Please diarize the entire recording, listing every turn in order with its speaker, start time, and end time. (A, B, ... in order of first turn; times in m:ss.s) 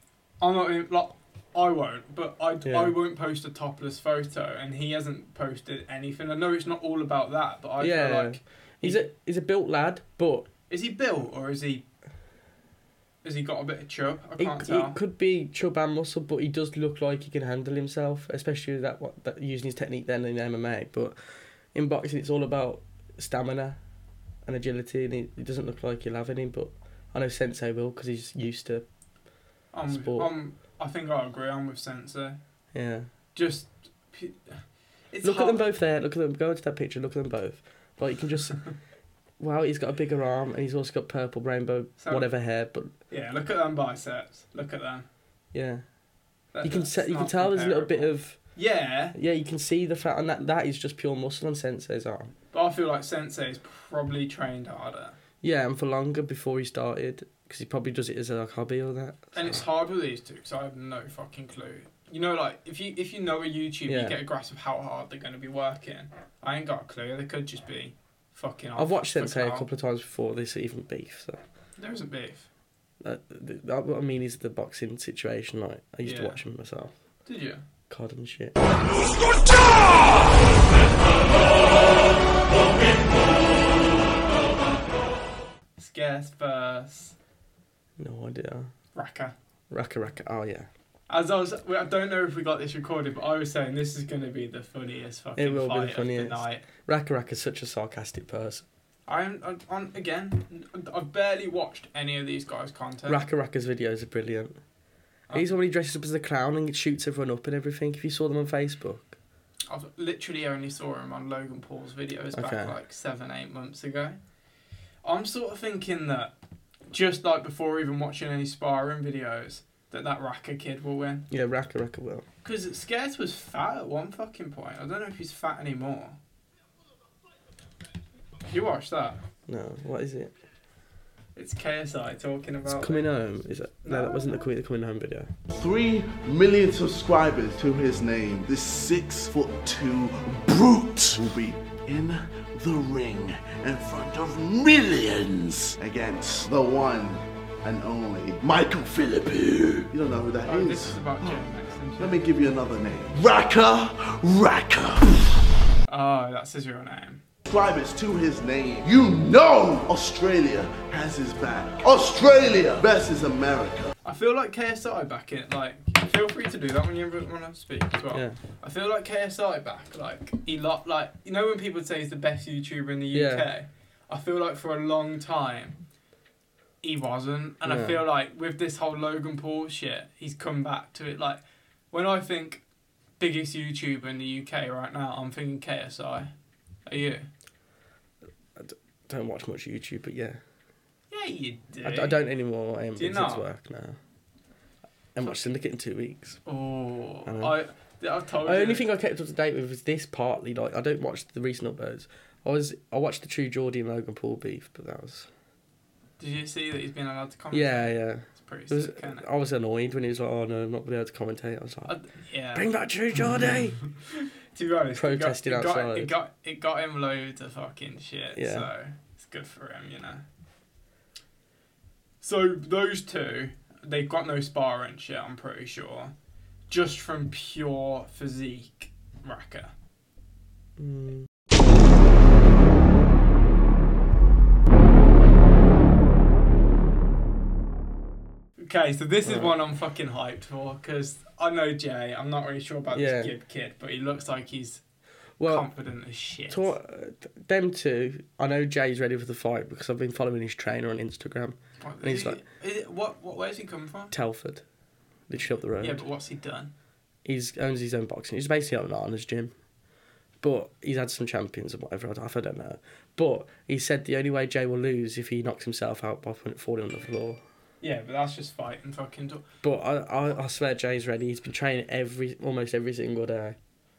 0:00.4-0:09.0 A
0:02.6-0:03.0 B
0:07.8-0:10.5 B
0:10.7-0:11.9 A
0:13.2-0:15.0 A
0:14.4-0:21.2 B
0:21.7-0:23.8 B
0:24.4-0:28.8 B
0:29.7-0:32.4 A
0:29.9-0:30.3 B
0:32.7-0:33.1 B
0:33.3-0:35.6 A
0:35.2-0:38.6 B
0:39.4-0:42.9 B
0:42.0-0:42.3 A
0:43.1-0:45.1 A
0:45.5-0:45.8 B
0:46.5-0:49.2 A
0:46.6-0:48.4 B
0:49.1-0:52.3 B
0:52.5-0:55.2 A
0:55.4-0:59.6 B
0:59.3-1:09.7 A
1:03.9-1:04.2 B
1:08.8-1:11.4 B
1:11.8-1:12.5 A
1:13.0-1:16.9 B
1:16.0-1:16.4 A
1:17.2-1:17.6 A
1:17.9-1:18.6 B
1:25.8-1:27.1 A
1:28.0-1:28.7 B
1:28.9-1:29.3 A
1:29.7-1:30.7 B
1:31.1-1:36.6 A
1:35.4-1:38.6 B
1:39.1-1:43.2 A
1:43.1-1:44.6 B
1:45.3-1:49.2 B
1:49.7-1:54.2 A
1:52.3-1:52.7 B
1:55.0-1:56.3 A
1:56.9-2:01.3 A
2:01.3-2:02.2 B
2:02.4-2:06.2 A
2:08.5-2:09.2 A
2:09.5-2:10.3 B
2:11.4-2:13.1 A
2:12.6-2:15.3 B
2:13.8-2:14.2 A
2:15.5-2:31.4 C
2:30.4-2:32.2 A
2:32.0-2:35.2 C
2:35.9-2:37.2 A
2:37.5-2:43.9 C
2:44.0-2:55.8 A
2:48.1-2:48.4 B
2:53.1-2:53.5 B
2:56.8-3:02.6 A
2:57.6-2:58.0 B
3:03.2-3:06.3 A
3:06.8-3:07.3 A
3:08.6-3:10.4 B
3:11.1-3:12.2 A
3:11.8-3:14.0 B
3:13.0-3:13.4 A
3:15.1-3:16.4 B
3:16.4-3:18.9 A
3:17.2-3:17.5 B
3:18.4-3:25.3 B
3:26.2-3:29.2 A
3:27.5-3:32.0 B
3:31.9-3:32.7 A
3:32.5-3:33.8 B
3:34.1-3:40.2 A
3:34.9-3:36.1 B
3:38.3-3:38.7 B
3:42.2-3:46.1 A
3:46.7-3:49.7 A
3:50.8-3:51.3 B
3:58.6-4:04.8 A
3:59.2-3:59.5 B
4:02.9-4:03.3 B
4:05.4-4:05.7 B
4:05.4-4:06.7 A
4:06.5-4:12.4 B
4:11.8-4:14.1 A
4:14.1-4:14.6 B
4:15.3-4:16.0 B
4:15.8-4:16.7 A
4:17.2-4:19.5 B
4:20.4-4:27.4 B
4:27.8-4:29.4 A
4:29.6-4:33.6 B